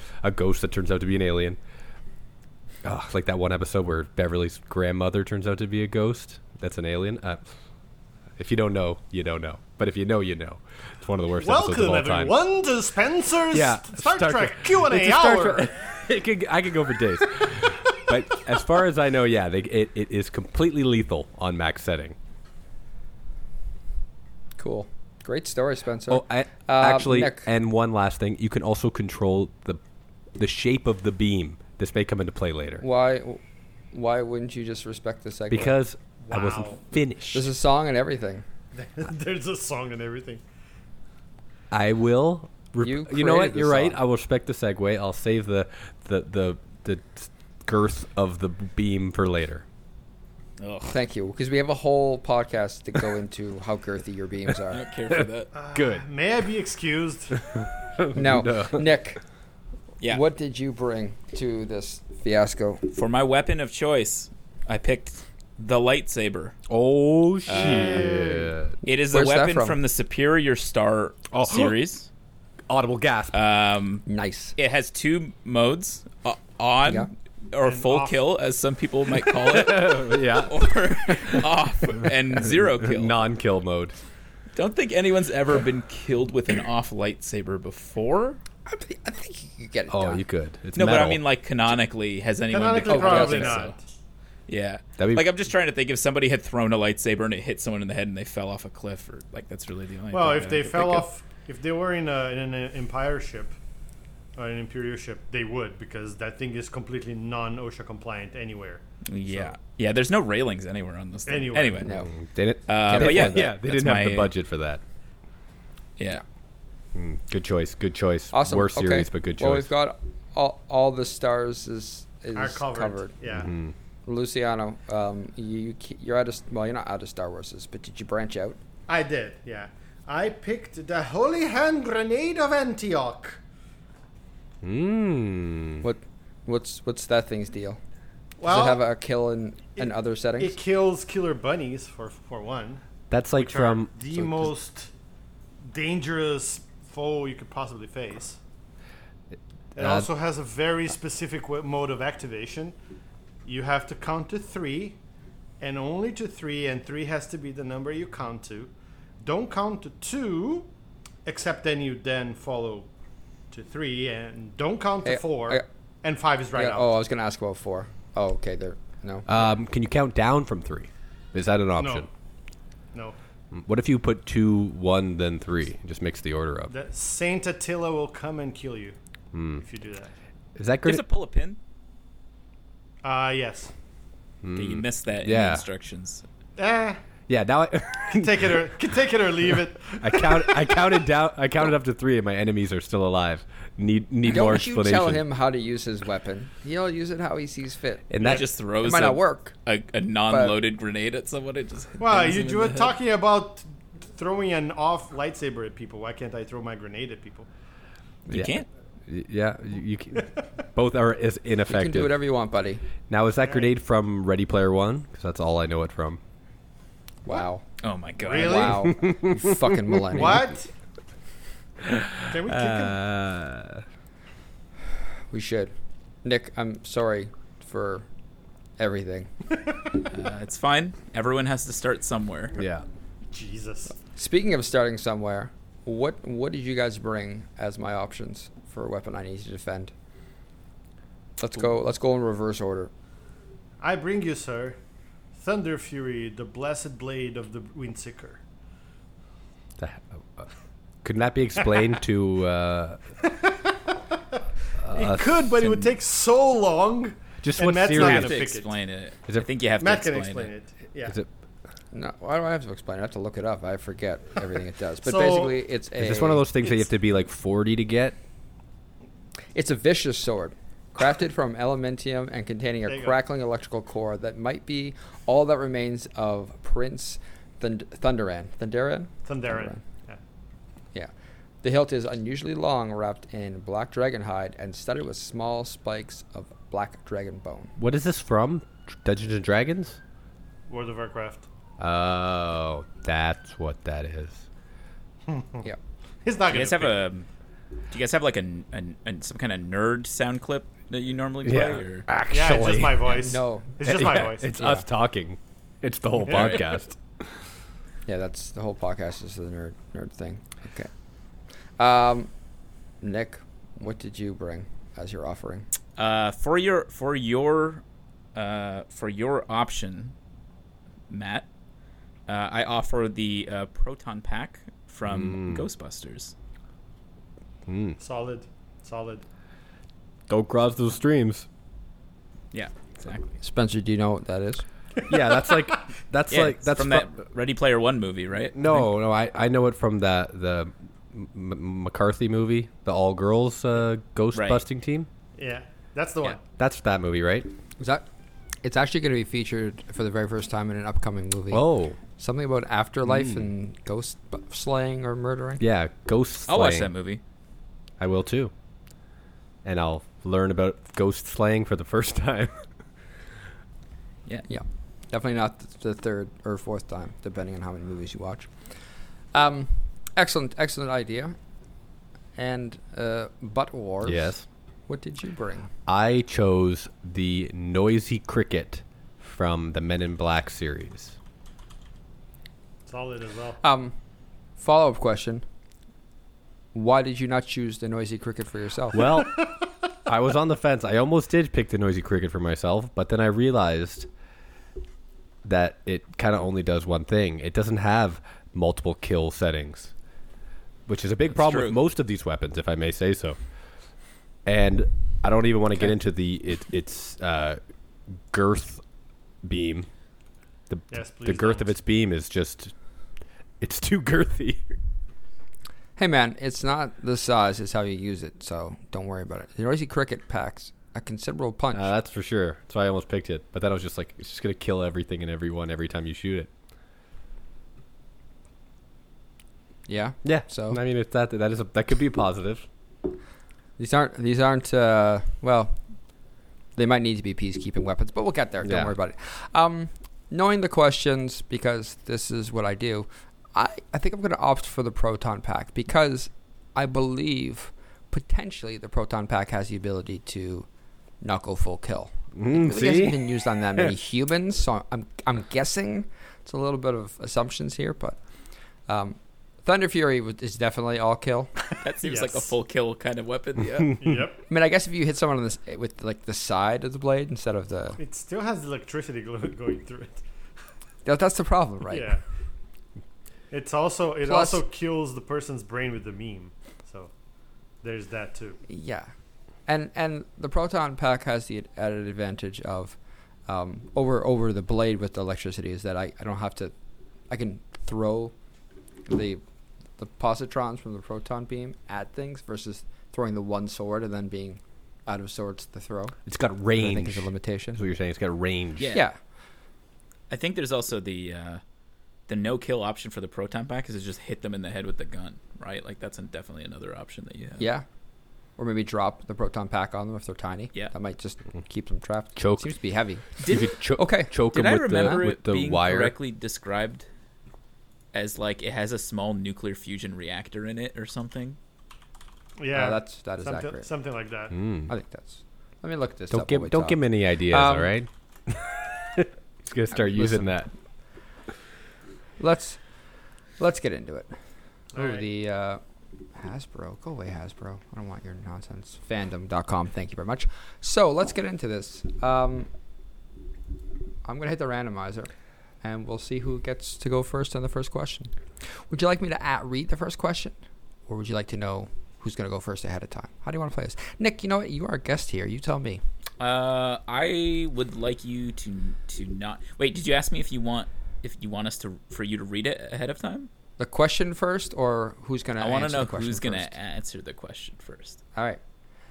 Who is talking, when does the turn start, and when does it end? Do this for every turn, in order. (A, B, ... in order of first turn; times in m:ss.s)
0:00.2-0:01.6 A
0:02.8-0:07.4 A
0:08.4-0:12.4 A
0:11.4-0:15.7 B
0:13.5-0:22.2 A
0:24.6-0:27.5 C
0:26.1-0:29.8 A
0:30.4-0:32.8 A
0:32.8-0:33.4 C
0:33.9-0:35.8 C
0:35.5-0:37.5 A
0:36.2-0:36.8 B
0:37.3-0:38.4 C
0:38.7-0:40.4 B
0:41.7-0:49.6 A
0:42.8-0:44.0 C
0:50.6-0:50.9 D
0:50.9-0:54.8 C
0:54.7-0:55.5 D
0:55.1-0:56.0 A
0:55.5-0:57.4 B
0:57.5-0:58.8 A
0:58.1-0:59.2 C
1:00.0-1:02.8 C
1:02.9-1:06.5 D
1:06.7-1:08.7 A
1:07.5-1:08.0 D
1:07.5-1:08.5 B
1:08.8-1:12.1 D
1:08.8-1:09.8 C
1:11.3-1:11.8 A
1:12.7-1:13.4 A
1:13.3-1:14.0 D
1:14.0-1:14.6 C
1:14.6-1:23.2 D
1:16.8-1:17.1 C
1:17.6-1:18.2 B
1:19.4-1:21.4 A
1:22.4-1:23.9 A
1:24.5-1:28.4 D
1:28.6-1:30.2 C
1:29.9-1:31.2 A
1:30.7-1:33.7 D
1:32.5-1:33.8 B
1:32.8-1:33.7 C
1:34.5-1:41.1 D
1:35.0-1:35.3 A
1:40.1-1:43.6 B
1:44.4-1:49.6 B
1:49.0-1:51.9 D
1:51.3-1:51.9 B
1:51.8-1:52.1 C
1:52.1-1:54.8 A
1:52.7-1:54.3 D
1:52.9-1:53.4 C
1:56.0-1:56.2 D
1:56.9-1:59.7 A
1:58.3-2:03.2 C
2:02.3-2:03.5 B
2:03.3-2:03.7 A
2:04.0-2:08.6 C
2:08.9-2:13.4 B
2:14.6-2:15.8 A
2:15.8-2:17.8 C
2:18.4-2:18.8 B
2:18.4-2:20.6 C
2:19.8-2:24.9 B
2:23.1-2:24.5 A
2:25.6-2:28.4 B
2:29.7-2:30.1 A
2:29.8-2:32.7 B
2:33.4-2:35.0 B
2:35.6-2:40.7 B
2:41.2-2:42.9 B
2:43.5-2:46.9 B
2:45.0-2:45.7 C
2:46.5-2:49.4 C
2:49.3-2:52.1 A
2:51.8-2:52.1 B
2:53.5-2:56.7 A
2:56.7-2:59.0 B
2:59.3-2:59.6 A
2:59.6-3:00.1 B
3:00.6-3:01.0 A
3:00.8-3:01.6 D
3:03.0-3:03.7 B
3:04.4-3:05.6 A
3:04.6-3:06.2 D
3:06.6-3:07.0 B
3:07.3-3:08.7 A
3:08.1-3:10.9 B
3:10.0-3:15.2 A
3:14.2-3:19.5 C
3:18.1-3:18.5 A
3:18.2-3:23.0 D
3:20.3-3:20.6 C
3:22.0-3:27.5 B
3:28.3-3:28.6 D
3:28.3-3:32.2 A
3:31.7-3:32.8 C
3:33.1-3:36.2 A
3:33.4-3:33.7 B
3:37.2-3:37.6 C
3:37.8-3:38.8 D
3:38.2-3:39.0 B
3:38.3-3:40.5 C
3:39.0-3:39.6 A
3:40.1-3:40.7 B
3:41.8-3:43.8 A
3:42.3-3:43.0 B
3:45.3-3:45.7 C
3:46.2-3:48.1 C
3:48.8-3:49.3 C
3:50.1-3:52.6 D
3:52.5-3:52.8 A
3:53.3-3:53.9 B
3:54.2-3:59.9 C
4:01.4-4:02.9 C
4:03.8-4:04.8 B
4:05.3-4:08.4 B
4:09.8-4:10.5 A
4:11.0-4:13.0 A
4:13.3-4:14.0 B
4:14.8-4:15.9 A
4:14.9-4:18.7 B
4:17.4-4:18.5 A
4:17.9-4:20.5 D
4:19.8-4:21.2 B
4:21.9-4:26.4 C
4:25.0-4:25.6 B
4:26.0-4:28.2 A
4:29.5-4:39.8 C
4:32.9-4:33.2 B
4:39.2-4:40.2 B
4:41.6-4:47.7 C
4:47.8-4:50.0 A
4:50.7-4:51.5 B
4:51.8-4:54.4 A
4:55.3-4:55.6 B
4:56.2-4:57.0 B
4:56.5-4:57.3 D
4:57.9-5:02.1 D
5:01.4-5:03.2 A
5:02.3-5:04.5 B
5:03.2-5:03.8 C
5:03.8-5:07.0 A
5:04.5-5:04.9 C
5:06.2-5:06.6 B
5:06.3-5:06.6 D
5:08.1-5:10.9 C
5:11.8-5:12.3 C
5:13.0-5:15.7 C
5:16.0-5:17.8 D
5:18.3-5:20.1 D
5:21.1-5:21.5 D
5:22.3-5:26.3 D
5:25.0-5:25.6 A
5:27.7-5:28.0 A
5:28.0-5:29.2 B
5:30.3-5:31.5 A
5:32.5-5:33.3 D
5:33.4-5:34.6 C
5:35.1-5:37.1 A
5:35.1-5:35.5 B
5:36.3-5:38.8 D
5:38.5-5:45.1 A
5:44.3-5:44.6 D
5:45.4-5:46.4 B
5:46.6-5:47.5 A
5:47.8-5:48.0 C
5:48.6-5:55.6 C
5:51.5-5:52.0 A
5:53.0-5:53.5 A
5:55.6-5:56.9 A
5:56.5-5:57.2 D
5:58.0-5:58.5 A
5:59.6-6:02.6 A
6:04.5-6:08.7 C
6:09.3-6:11.4 C
6:12.4-6:14.4 C
6:14.0-6:14.4 A
6:14.9-6:15.7 C
6:15.9-6:21.2 A
6:22.8-6:23.6 B
6:23.6-6:23.9 C
6:24.6-6:25.4 C
6:26.7-6:29.1 C
6:28.9-6:29.5 A
6:30.0-6:34.1 A
6:35.4-6:39.9 A
6:40.9-6:43.4 A
6:41.3-6:41.8 D
6:44.4-6:47.6 A
6:48.3-6:48.8 A
6:49.4-6:49.9 A
6:50.7-6:52.7 A
6:50.9-6:51.7 B
6:53.6-6:54.8 A
6:56.0-7:01.9 C
7:01.7-7:06.5 A
7:09.9-7:10.8 C
7:10.2-7:12.7 A
7:13.8-7:15.8 C
7:16.8-7:30.7 C
7:18.6-7:18.9 A
7:31.2-7:38.2 C
7:32.3-7:33.2 A
7:38.9-7:41.5 C
7:41.8-7:44.1 D
7:42.0-7:42.5 B
7:44.0-7:44.4 B
7:44.5-7:48.0 C
7:48.0-7:50.2 B
7:51.0-7:52.2 C
7:51.9-7:52.2 B
7:53.5-7:57.1 B
7:54.2-7:54.6 C
7:57.8-7:58.6 B
7:58.7-7:59.1 C
7:59.7-8:03.0 C
8:03.5-8:06.7 C
8:07.3-8:08.3 C
8:09.1-8:09.4 C
8:10.0-8:16.2 C
8:16.2-8:18.9 A
8:16.7-8:17.8 C
8:18.8-8:19.0 D
8:18.9-8:19.2 C
8:20.3-8:21.6 D
8:22.3-8:27.7 D
8:27.6-8:27.8 C
8:28.6-8:33.2 C
8:32.4-8:32.7 A
8:33.4-8:36.1 A
8:33.4-8:33.8 D
8:34.0-8:35.3 C
8:34.4-8:37.0 D
8:38.1-8:41.6 D
8:42.6-8:44.5 B
8:42.7-8:43.9 C
8:44.5-8:44.9 A
8:44.9-8:47.9 C
8:46.3-8:50.7 A
8:49.9-8:50.6 C
8:52.4-8:52.8 C
8:53.6-8:54.3 C
8:54.9-8:55.2 B
8:54.9-8:55.8 C
8:56.3-9:02.7 C
9:04.2-9:05.3 C
9:05.8-9:08.3 C
9:08.9-9:10.6 C
9:11.1-9:16.0 C
9:16.4-9:23.5 D
9:23.8-9:26.7 C
9:25.6-9:28.2 D
9:28.3-9:28.6 C